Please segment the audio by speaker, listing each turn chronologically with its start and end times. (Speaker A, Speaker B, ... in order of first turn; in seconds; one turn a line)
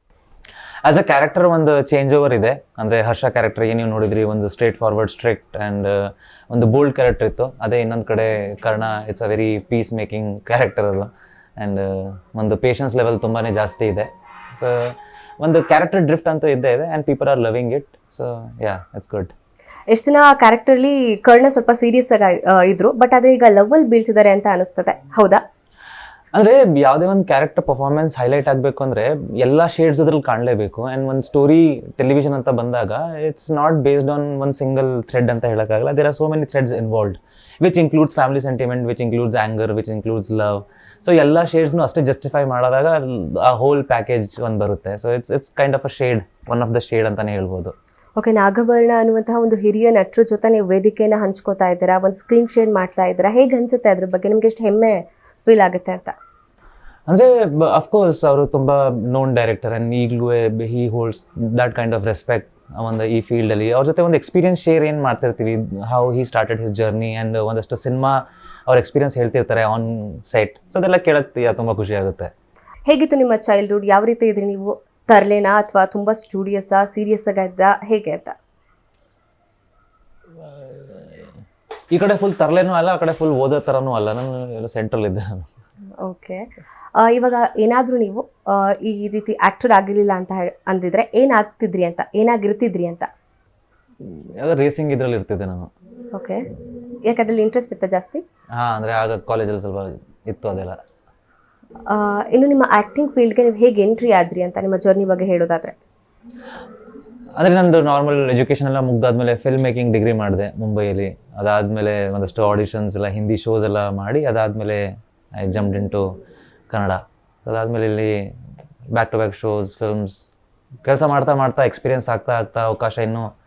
Speaker A: 0.8-19.3
Speaker B: 19.9-25.4
Speaker A: 26.3-47.7
Speaker B: 48.2-56.1
Speaker A: 57.1-72.3
Speaker B: 72.9-78.3
Speaker A: 80.5-81.3
Speaker A: 81.9-85.5
Speaker B: 86.0-93.1
Speaker A: 94.0-95.7
Speaker B: 96.1-96.5
Speaker B: 97.0-98.2
Speaker A: 98.5-100.8
Speaker B: 101.9-105.8
Speaker A: 107.4-116.1
Speaker A: 116.7-118.3
Speaker A: 118.9-120.3
Speaker A: 120.8-123.3